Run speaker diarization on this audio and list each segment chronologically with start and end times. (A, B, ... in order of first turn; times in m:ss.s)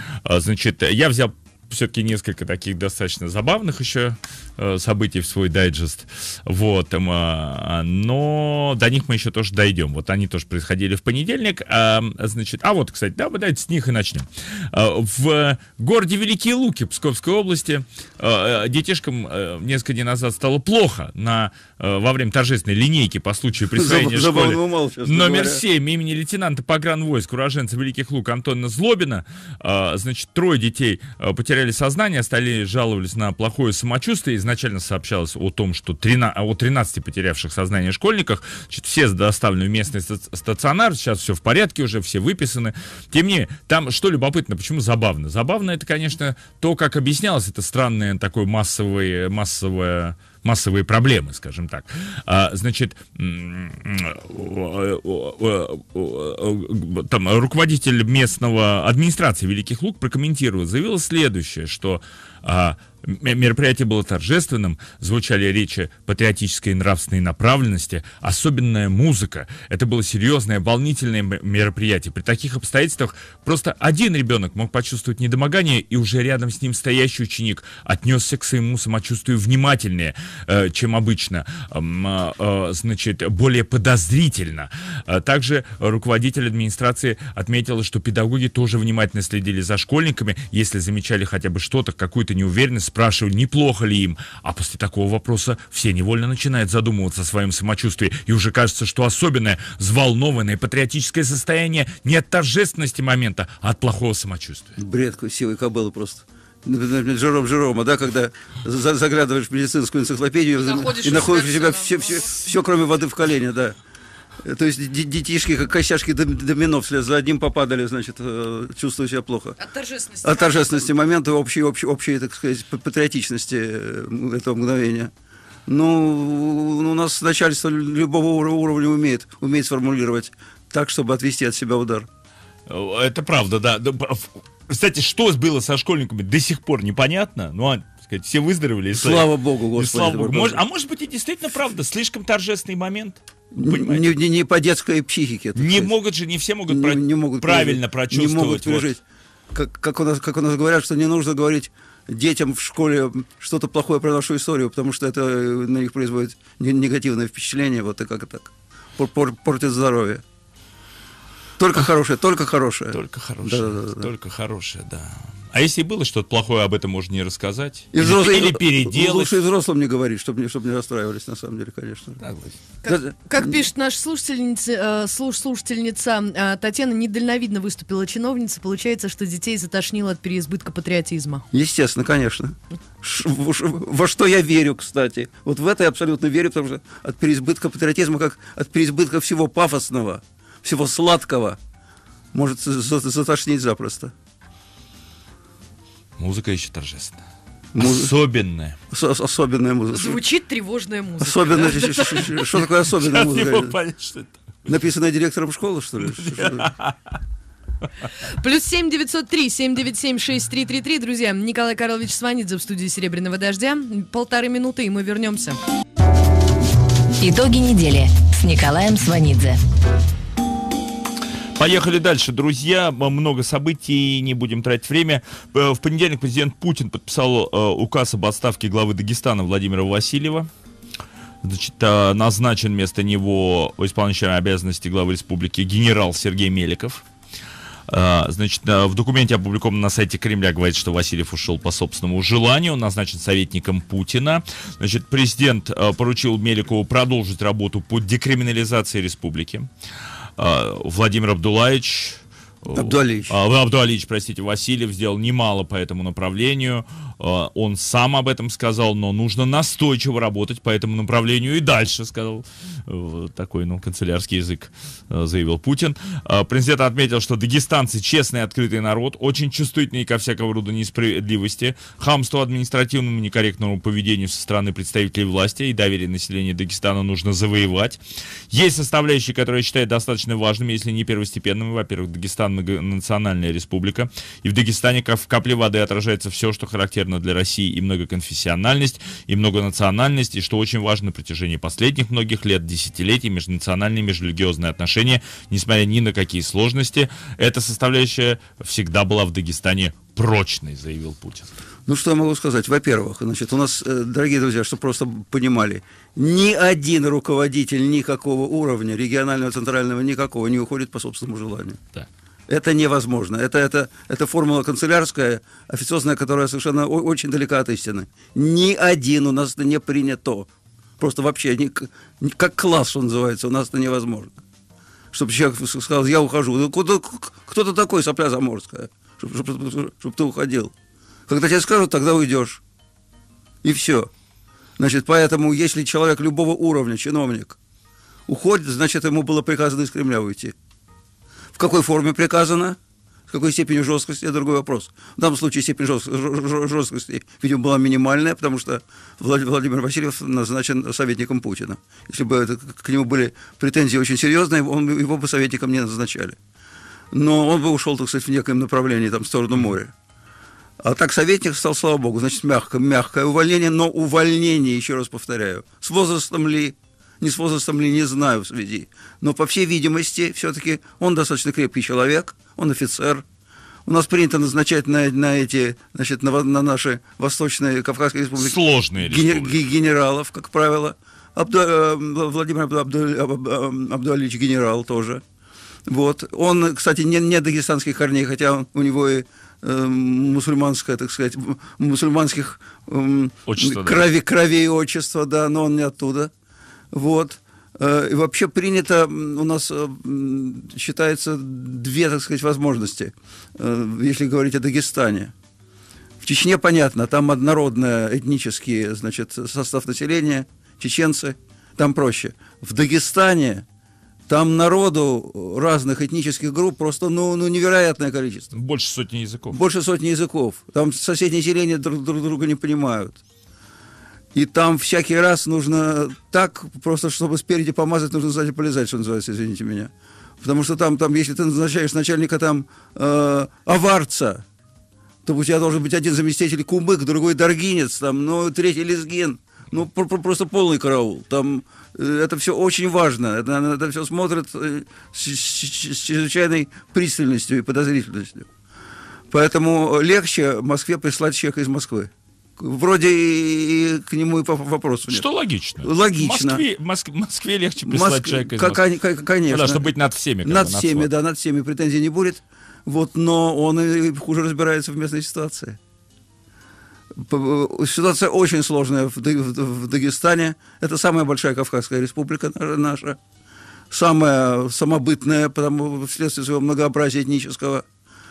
0:00.2-1:44.8 A
0:23.7-0:25.6 B
1:44.8-1:53.8 B
1:50.6-1:52.2 C
1:54.4-1:59.6 B
1:59.6-2:00.7 C
2:00.2-2:05.1 B
2:05.7-2:12.1 B
2:12.7-2:24.0 A
2:18.9-2:20.6 B
2:23.5-2:25.9 B
2:25.6-2:28.9 A
2:26.7-2:40.2 B
2:41.6-2:44.1 B
2:42.9-2:49.4 A
2:47.9-2:52.2 B
2:52.2-2:52.6 A
2:52.8-3:01.4 C
2:52.8-2:53.6 B
3:01.5-3:11.6 B
3:12.3-3:14.1 B
3:16.2-3:17.2 A
3:17.7-3:18.1 B
3:17.8-3:18.8 A
3:18.9-3:20.2 B
3:19.9-3:22.4 C
3:21.2-3:23.8 B
3:22.8-3:24.4 A
3:24.6-3:26.7 B
3:26.0-3:27.0 A
3:28.2-3:35.6 C
3:37.2-3:39.6 D
3:41.6-3:50.5 A
3:51.4-3:57.0 A
3:57.9-4:09.7 A
4:10.4-5:01.5 A
4:12.7-4:13.3 B
5:01.9-5:11.8 B
5:12.5-5:20.5 B
5:21.0-5:24.4 B
5:25.1-5:30.7 B
5:31.3-5:32.6 B
5:33.6-5:34.1 B
5:34.8-5:37.6 B
5:38.3-5:40.5 B
5:41.5-5:42.8 B
5:43.3-5:56.4 B
5:57.1-5:59.9 B
6:00.8-6:13.2 B
6:13.8-6:25.2 B
6:18.4-6:19.6 A
6:25.9-6:36.3 B
6:33.5-6:34.0 A
6:36.9-6:45.3 B
6:46.2-6:53.6 B
6:54.3-6:58.5 B
6:58.5-6:59.6 A
6:59.5-7:03.2 B
7:04.3-7:14.4 B
7:15.2-7:28.5 B
7:29.3-7:35.2 B
7:35.1-7:38.8 A
7:35.8-7:36.6 B
7:37.8-7:39.9 B
7:39.5-7:41.1 A
7:40.4-7:45.8 B
7:47.1-7:53.2 B
7:53.9-7:57.8 B